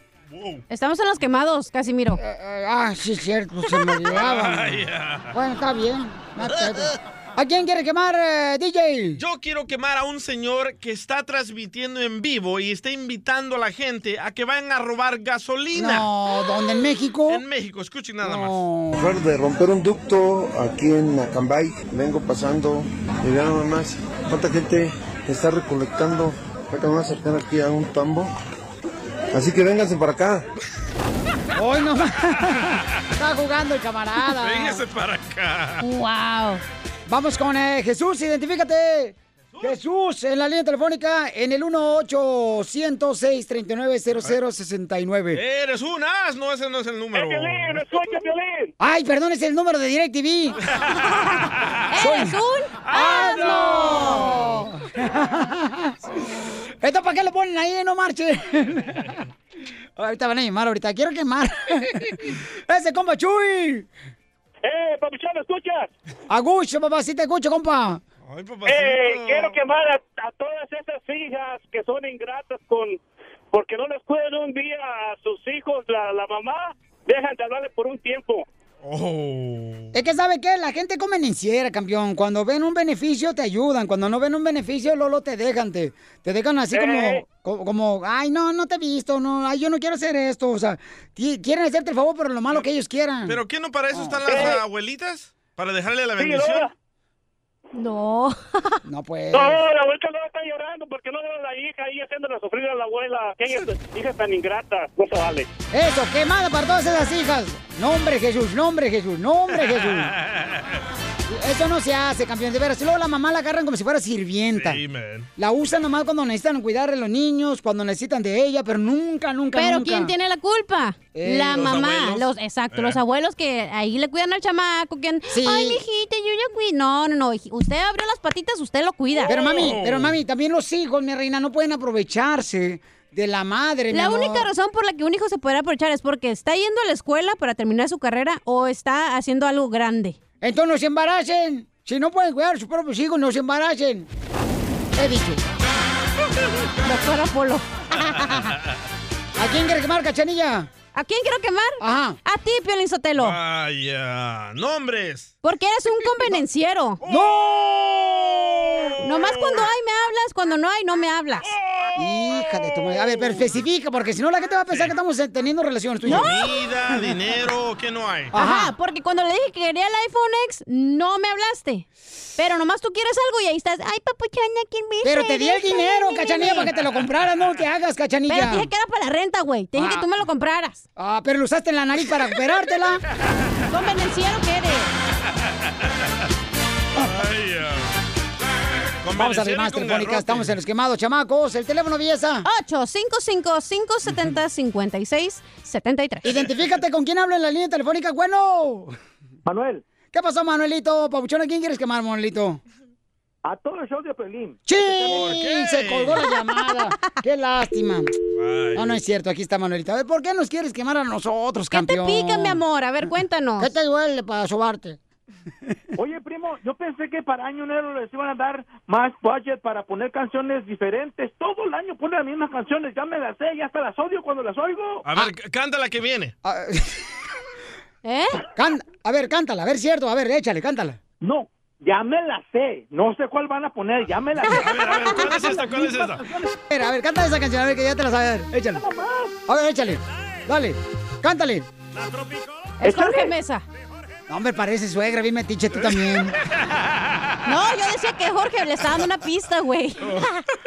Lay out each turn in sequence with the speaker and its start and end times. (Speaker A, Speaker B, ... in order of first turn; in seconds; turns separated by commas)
Speaker A: 0.3-0.6, Speaker B: 0.7-2.2, Speaker C: 2.1-9.2, Speaker A: 4.1-5.3, Speaker A: 9.2-16.1, Speaker C: 15.7-17.4, Speaker A: 17.3-18.6, Speaker C: 18.2-19.1, Speaker D: 18.9-28.3, Speaker D: 29.3-30.4, Speaker C: 31.5-34.8, Speaker A: 34.4-35.8, Speaker B: 35.8-36.6, Speaker C: 37.1-45.4, Speaker A: 45.3-47.9, Speaker E: 47.1-48.7, Speaker C: 48.8-50.6, Speaker B: 51.2-54.5, Speaker C: 52.0-52.4, Speaker A: 52.9-54.0, Speaker C: 52.9-56.0, Speaker C: 56.8-59.1, Speaker C: 60.0-63.9, Speaker E: 64.6-65.9, Speaker C: 66.3-68.0, Speaker A: 68.2-69.6, Speaker E: 68.7-73.0, Speaker E: 73.5-78.4, Speaker A: 78.8-79.9, Speaker C: 79.9-93.4, Speaker E: 86.7-87.2, Speaker A: 93.2-96.7, Speaker C: 93.9-94.5, Speaker E: 94.3-94.6, Speaker E: 96.2-96.7, Speaker B: 97.7-98.8, Speaker C: 98.8-99.6, Speaker E: 99.3-105.5, Speaker C: 105.7-110.1, Speaker A: 109.8-110.8, Speaker C: 111.3-114.8, Speaker A: 114.5-115.3, Speaker C: 115.4-120.1, Speaker B: 119.5-129.4, Speaker C: 121.1-121.8, Speaker A: 121.5-123.0, Speaker C: 125.3-125.8, Speaker C: 129.2-134.5, Speaker A: 129.3-130.2, Speaker B: 133.9-140.2, Speaker C: 140.4-144.1, Speaker C: 144.9-145.4, Speaker B: 146.8-148.5, Speaker C: 149.4-150.7, Speaker B: 150.9-153.4, Speaker C: 151.8-152.2, Speaker A: 153.2-155.3, Speaker B: 155.4-157.0, Speaker A: 157.0-159.7, Speaker C: 157.0-157.5, Speaker B: 159.0-161.5, Speaker A: 161.5-163.5, Speaker C: 161.9-166.3, Speaker A: 166.1-168.3, Speaker B: 166.1-166.6, Speaker C: 168.3-168.7, Speaker B: 168.3-171.8, Speaker B: 172.4-176.7, Speaker C: 175.0-178.7, Speaker B: 178.3-180.8, Speaker C: 179.7-180.1, Speaker C: 180.9-183.0, Speaker B: 183.7-184.9, Speaker A: 186.9-187.9, Speaker A: 189.0-190.5, Speaker C: 189.1-192.5, Speaker B: 192.4-196.2, Speaker C: 196.2-198.9, Speaker F: 199.4-199.8, Speaker C: 200.1-202.6, Speaker F: 203.4-205.1, Speaker C: 204.7-208.1, Speaker A: 205.1-206.2, Speaker B: 206.3-207.1, Speaker A: 208.3-209.0, Speaker C: 208.7-212.6, Speaker B: 211.7-213.7, Speaker C: 213.6-215.0, Speaker F: 216.0-225.0, Speaker A: 225.0-226.3, Speaker C: 226.4-227.0, Speaker B: 228.0-228.4, Speaker C: 228.5-231.0, Speaker F: 231.2-234.8, Speaker B: 234.4-235.4, Speaker A: 234.5-236.3, Speaker F: 235.6-236.2, Speaker C: 236.7-238.8, Speaker C: 239.5-241.7, Speaker A: 242.0-242.4, Speaker B: 242.8-243.6, Speaker C: 244.3-246.3, Speaker B: 247.4-250.4